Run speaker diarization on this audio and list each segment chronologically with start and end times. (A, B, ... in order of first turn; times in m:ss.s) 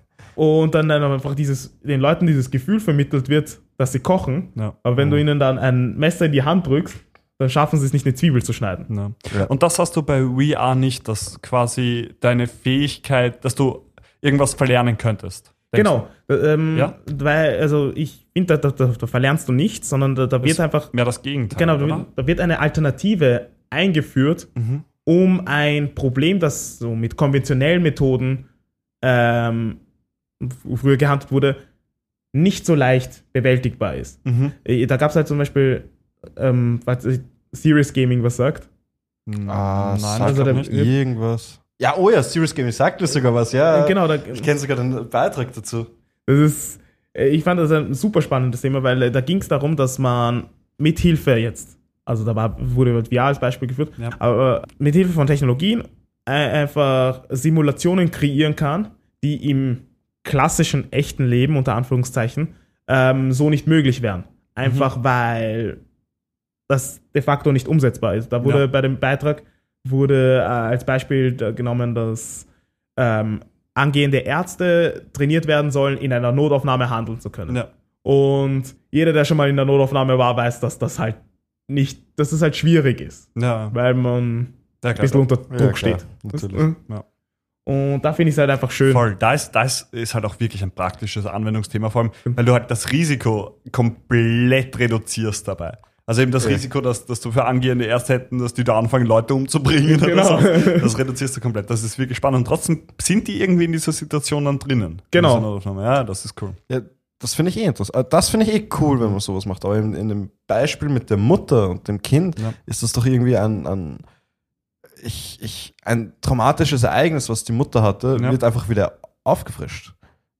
0:00.4-0:08.9 A
0:08.9-0:16.0 B
0:15.7-0:20.9 A
0:20.4-0:22.1 B
0:21.5-0:24.5 A
0:24.6-0:24.8 B
0:25.0-0:28.5 A
0:29.0-0:29.8 A
0:30.4-0:31.6 A
0:32.3-0:38.7 A
0:34.3-0:34.5 B
0:39.3-0:40.8 B
0:39.5-0:45.9 C
0:40.2-0:40.9 A
0:43.7-0:44.5 A
0:46.3-1:05.8 A
1:06.7-1:26.8 A
1:23.4-1:23.8 B
1:24.8-1:25.3 B
1:25.5-1:26.7 C
1:27.7-1:29.1 A
1:28.9-1:46.6 B
1:39.9-1:41.0 A
1:45.1-1:45.5 A
1:46.7-1:54.0 C
1:55.0-1:59.9 C